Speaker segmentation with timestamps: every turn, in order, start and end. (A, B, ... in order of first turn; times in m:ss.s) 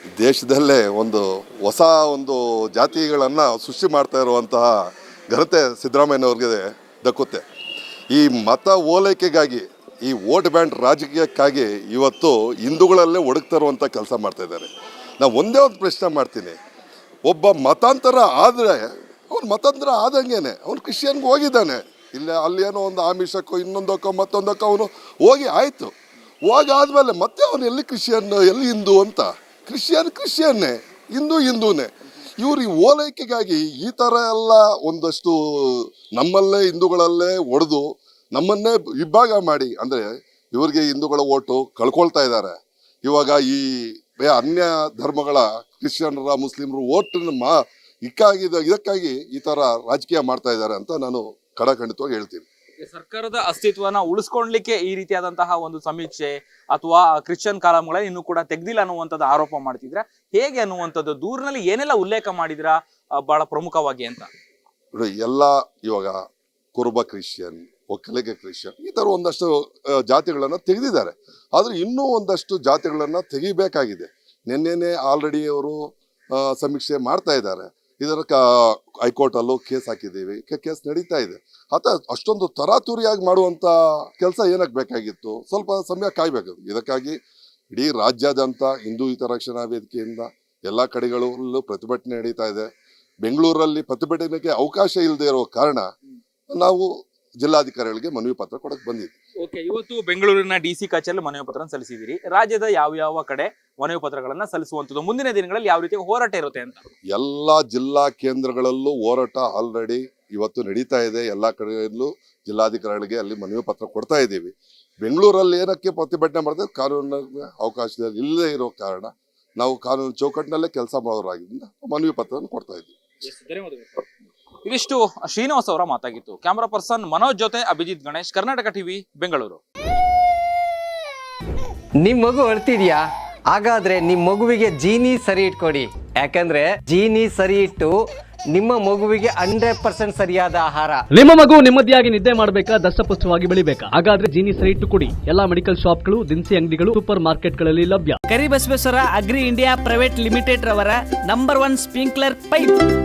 0:00.2-0:04.7 A
0:05.3-0:07.4 A
0:08.1-0:14.7 A
0:15.2-0:16.6 A
0:17.2-0:25.9 A
0:26.4-0:42.5 A
0:43.0-0:52.4 A
0:52.8-1:04.3 B
1:04.9-1:06.2 A
1:06.7-1:27.2 A
1:27.7-1:32.7 A
1:33.2-1:35.8 A
1:36.5-1:36.9 A
1:37.4-1:39.1 A
1:39.4-1:46.8 B
1:47.1-2:02.9 A
2:03.2-2:04.0 B
2:04.6-2:09.6 B
2:12.0-2:18.0 C
2:18.5-2:21.0 C
2:21.1-2:28.2 D
2:28.3-2:32.8 E